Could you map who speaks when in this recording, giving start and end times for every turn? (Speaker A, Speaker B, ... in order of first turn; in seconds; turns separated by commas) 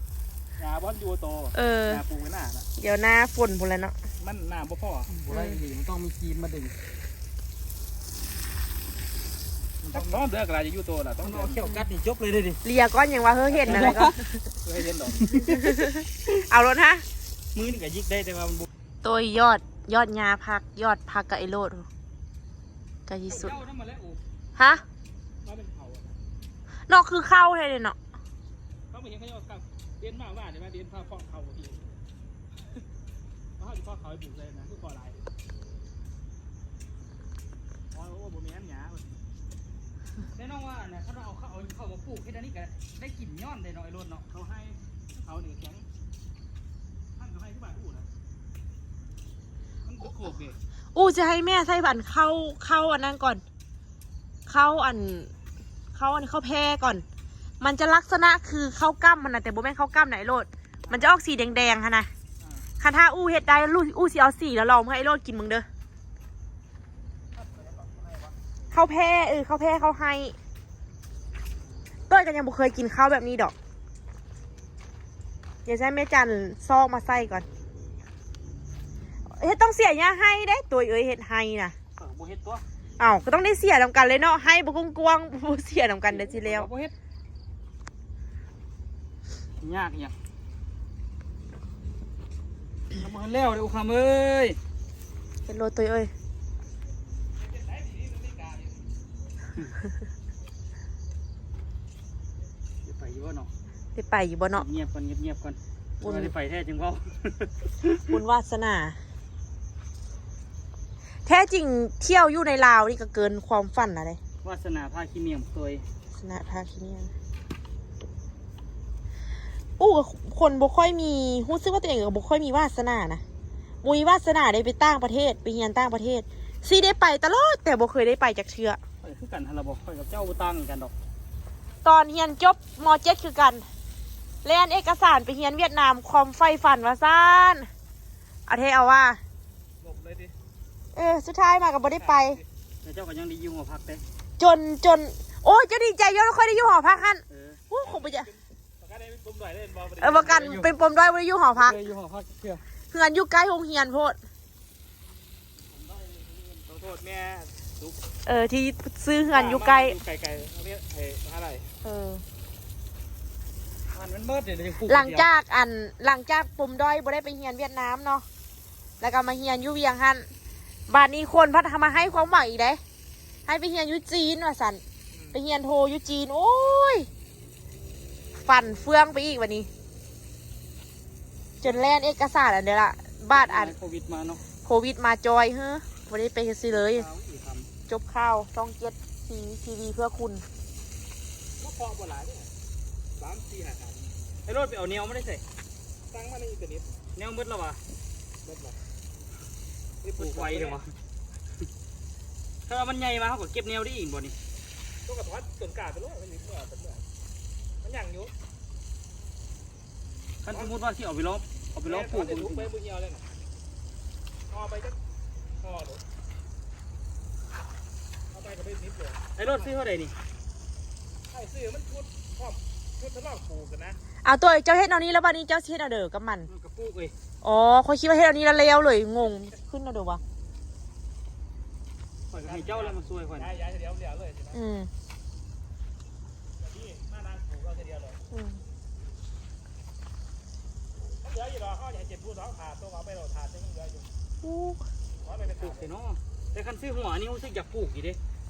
Speaker A: 0.6-2.6, Speaker B: 1.5-2.0, Speaker B: 2.8-3.9, Speaker A: 4.2-5.1, Speaker C: 5.1-6.7, Speaker B: 5.3-5.6, Speaker C: 9.8-10.2, Speaker A: 9.9-11.6, Speaker C: 11.2-12.6, Speaker B: 12.6-14.3, Speaker A: 13.5-14.1, Speaker C: 13.7-14.2, Speaker A: 14.6-15.3, Speaker C: 15.2-16.4, Speaker B: 15.3-17.0, Speaker C: 17.5-18.7, Speaker B: 19.0-21.9, Speaker B: 23.1-23.6, Speaker C: 23.3-24.2, Speaker B: 24.6-24.8, Speaker A: 25.4-26.1, Speaker B: 26.9-27.9, Speaker A: 28.9-31.9, Speaker A: 33.6-35.3, Speaker A: 37.9-39.3, Speaker C: 40.3-44.2, Speaker A: 44.3-45.9, Speaker A: 47.2-48.1, Speaker A: 49.8-50.6, Speaker B: 50.9-53.4, Speaker B: 54.5-55.3, Speaker B: 55.9-57.0, Speaker B: 57.6-62.1, Speaker A: 62.4-62.6, Speaker B: 62.8-65.7, Speaker A: 67.3-68.3, Speaker B: 68.7-70.3, Speaker B: 72.1-73.5, Speaker B: 75.7-77.5, Speaker B: 79.4-81.7, Speaker C: 82.0-82.6, Speaker B: 83.0-86.7, Speaker C: 86.1-86.9, Speaker C: 89.6-90.1, Speaker C: 92.9-94.6, Speaker B: 95.5-96.1, Speaker A: 97.3-98.8, Speaker C: 102.8-103.5, Speaker B: 104.0-104.6, Speaker C: 104.5-108.2, Speaker B: 106.0-106.3, Speaker B: 108.1-109.0, Speaker B: 111.2-114.2, Speaker C: 114.4-115.8, Speaker B: 116.1-117.1, Speaker B: 119.8-123.2, Speaker B: 123.8-128.8, Speaker C: 129.0-130.9, Speaker B: 131.8-133.6, Speaker B: 134.4-137.7, Speaker B: 138.5-139.2, Speaker A: 139.8-140.3, Speaker B: 140.9-142.4, Speaker A: 141.8-142.4, Speaker C: 142.8-144.0, Speaker B: 144.4-148.3, Speaker C: 147.3-147.6, Speaker A: 147.8-150.4, Speaker B: 150.0-151.8, Speaker C: 150.1-150.7, Speaker C: 151.6-152.6, Speaker B: 152.9-154.2, Speaker C: 155.6-156.6, Speaker A: 156.7-158.0, Speaker B: 158.2-160.0, Speaker A: 159.3-161.7, Speaker B: 161.8-162.2, Speaker C: 163.9-165.3, Speaker B: 164.9-168.2, Speaker B: 169.0-170.3, Speaker B: 170.9-172.8, Speaker B: 173.5-174.8, Speaker A: 175.1-175.4, Speaker B: 175.3-177.1, Speaker B: 178.4-179.7, Speaker B: 181.6-183.7, Speaker C: 183.3-184.4, Speaker B: 184.6-187.1, Speaker C: 186.7-187.7, Speaker B: 187.9-190.4, Speaker A: 191.6-192.5, Speaker A: 193.2-194.1, Speaker C: 194.4-195.4, Speaker A: 196.1-197.1, Speaker C: 197.2-197.8, Speaker A: 198.4-198.8, Speaker A: 200.0-200.8, Speaker C: 200.2-200.9, Speaker C: 202.7-204.3, Speaker A: 205.1-207.0, Speaker A: 207.8-208.3, Speaker C: 210.4-212.7, Speaker A: 211.8-213.3, Speaker A: 214.5-215.0, Speaker A: 215.6-216.0, Speaker A: 218.3-219.7, Speaker C: 219.3-220.1, Speaker A: 221.3-224.0, Speaker B: 224.2-226.5, Speaker C: 226.5-227.1, Speaker B: 227.4-230.2, Speaker C: 232.3-233.6, Speaker A: 232.3-234.6, Speaker B: 234.5-234.9, Speaker A: 236.6-238.2, Speaker B: 238.3-238.6, Speaker A: 241.2-244.1, Speaker B: 244.4-244.8, Speaker A: 245.2-245.9, Speaker C: 245.6-248.2